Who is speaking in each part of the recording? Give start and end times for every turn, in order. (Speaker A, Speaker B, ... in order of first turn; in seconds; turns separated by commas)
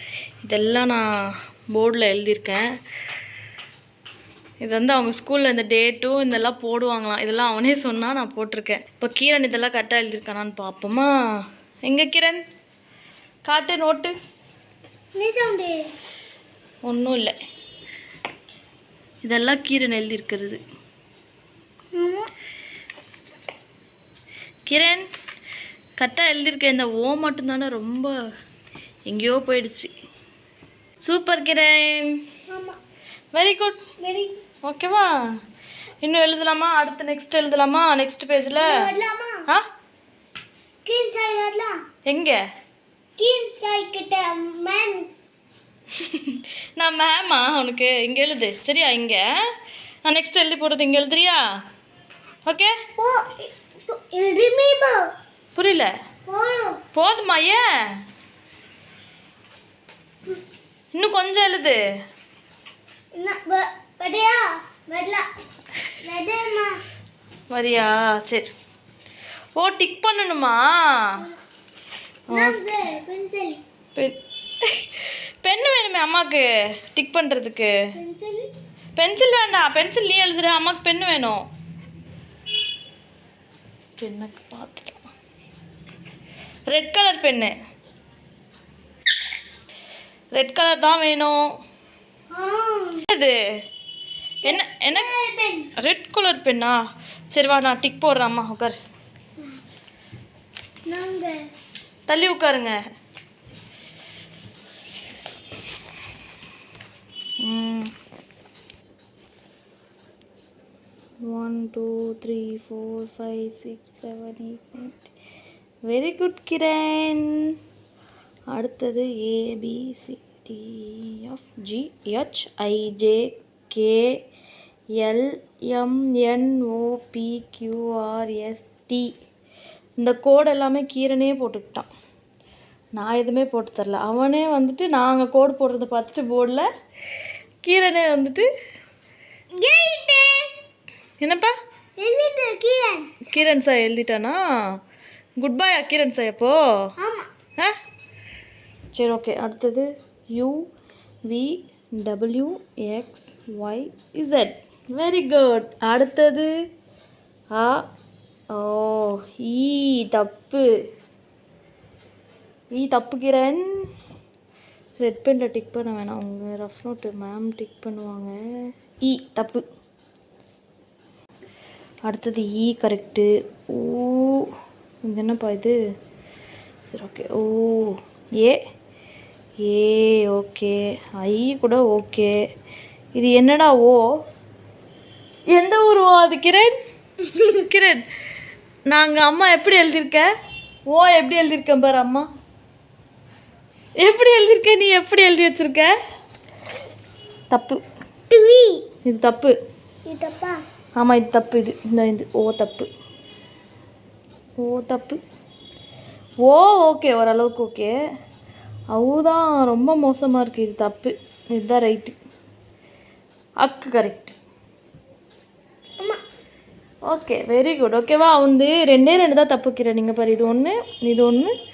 Speaker A: 0.4-1.1, Speaker A: 1.7-2.7, Speaker A: 4.6-11.1, Speaker A: 11.8-12.4, Speaker A: 13.4-14.2, Speaker B: 15.2-15.8, Speaker A: 16.8-17.4, Speaker A: 19.2-20.6, Speaker B: 21.9-22.3, Speaker A: 24.7-25.1, Speaker A: 26.0-28.1, Speaker A: 29.1-29.9, Speaker A: 31.0-32.2, Speaker B: 32.5-32.8, Speaker A: 33.3-33.9, Speaker B: 34.0-34.4, Speaker A: 34.6-35.1, Speaker A: 36.0-38.8, Speaker B: 38.6-39.5, Speaker B: 40.9-41.8, Speaker A: 42.1-42.4, Speaker B: 43.2-45.1, Speaker A: 46.0-49.2, Speaker A: 50.0-51.4, Speaker A: 52.5-52.7, Speaker B: 53.0-55.0, Speaker A: 55.5-55.9, Speaker B: 56.3-56.8, Speaker A: 56.9-57.6, Speaker A: 60.9-61.8, Speaker B: 63.1-65.3, Speaker B: 66.0-66.8, Speaker A: 67.5-68.5, Speaker A: 69.6-71.2, Speaker A: 72.3-72.6, Speaker B: 72.3-73.6, Speaker A: 74.0-77.8, Speaker B: 78.0-78.5, Speaker A: 79.0-81.4, Speaker A: 84.0-85.0, Speaker A: 86.7-87.5, Speaker A: 90.3-91.4, Speaker B: 92.3-93.1, Speaker A: 93.1-93.4, Speaker A: 94.4-95.1, Speaker B: 94.5-95.7, Speaker A: 95.8-96.8, Speaker A: 97.3-98.8, Speaker B: 100.9-101.3, Speaker A: 102.1-102.8, Speaker A: 107.4-107.9, Speaker A: 111.2-115.1, Speaker A: 115.8-117.5, Speaker A: 118.5-124.1, Speaker A: 125.0-129.1, Speaker A: 130.0-131.9, Speaker A: 133.0-136.7, Speaker A: 137.6-138.5, Speaker B: 139.6-140.5, Speaker A: 141.2-141.5, Speaker B: 142.0-143.3, Speaker A: 143.3-144.4, Speaker A: 145.4-146.6, Speaker B: 147.0-147.3, Speaker A: 148.9-150.7, Speaker A: 151.3-156.5, Speaker A: 157.5-157.8, Speaker A: 158.5-160.7, Speaker A: 162.7-163.7, Speaker A: 165.0-168.3, Speaker A: 169.0-169.6, Speaker A: 172.1-174.5, Speaker A: 175.1-175.8, Speaker A: 176.9-178.6, Speaker A: 179.6-182.3, Speaker A: 183.2-184.0, Speaker A: 185.5-186.8, Speaker A: 187.4-188.0, Speaker A: 188.9-190.3, Speaker A: 190.9-192.3, Speaker A: 194.0-195.9, Speaker A: 197.5-197.8, Speaker B: 198.3-198.8, Speaker A: 199.1-199.5, Speaker B: 200.1-200.6, Speaker A: 201.0-202.9, Speaker A: 204.6-205.2, Speaker A: 206.4-207.9, Speaker A: 208.9-212.2, Speaker A: 213.6-214.4, Speaker A: 217.1-221.5